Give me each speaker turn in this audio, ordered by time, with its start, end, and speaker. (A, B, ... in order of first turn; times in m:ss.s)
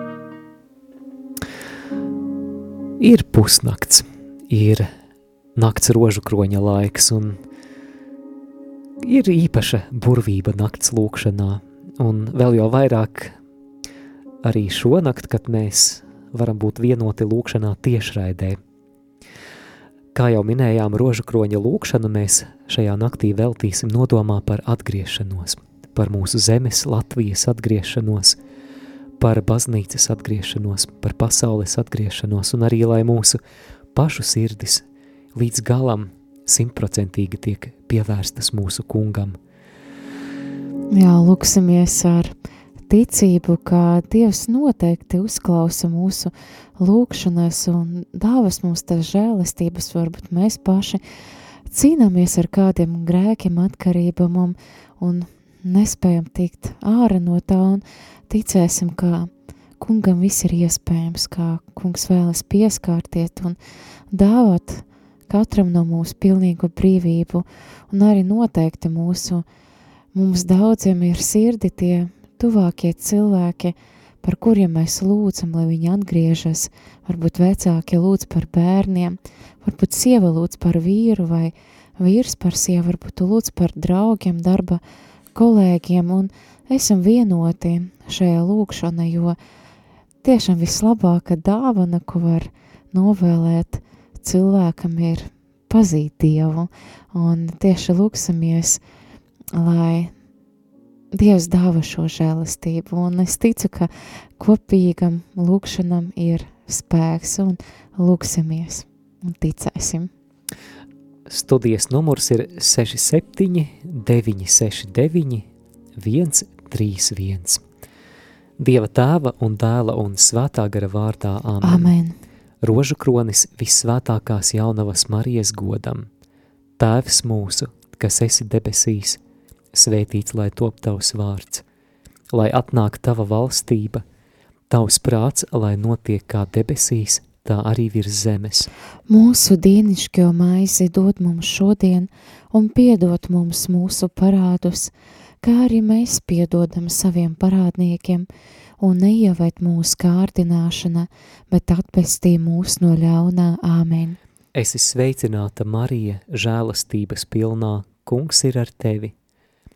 0:03.0-0:04.9 A
0:05.6-0:07.4 A
0:09.0-0:13.4 A
0:14.4-0:18.6 A
0:20.1-0:28.4 A
0:29.2-0:33.4 A
0:33.9-0:39.4 A
0:40.9-0:42.3 B
0:42.9-0:51.0 B
0:51.7-1:03.6 B
1:04.1-1:09.4 B
1:10.1-1:24.8 B
1:25.3-1:29.4 B
1:30.2-1:38.8 B
1:39.5-1:40.1 B
1:41.1-1:50.1 B
1:51.3-1:55.5 A
1:56.0-1:57.6 A
1:58.6-2:01.9 A
2:01.6-2:02.2 B
2:02.6-2:06.1 A
2:06.8-2:09.2 A
2:09.7-2:11.6 A
2:12.3-2:14.0 A
2:14.7-2:18.7 A
2:19.1-2:28.3 B
2:28.8-2:34.2 B
2:34.5-2:39.1 A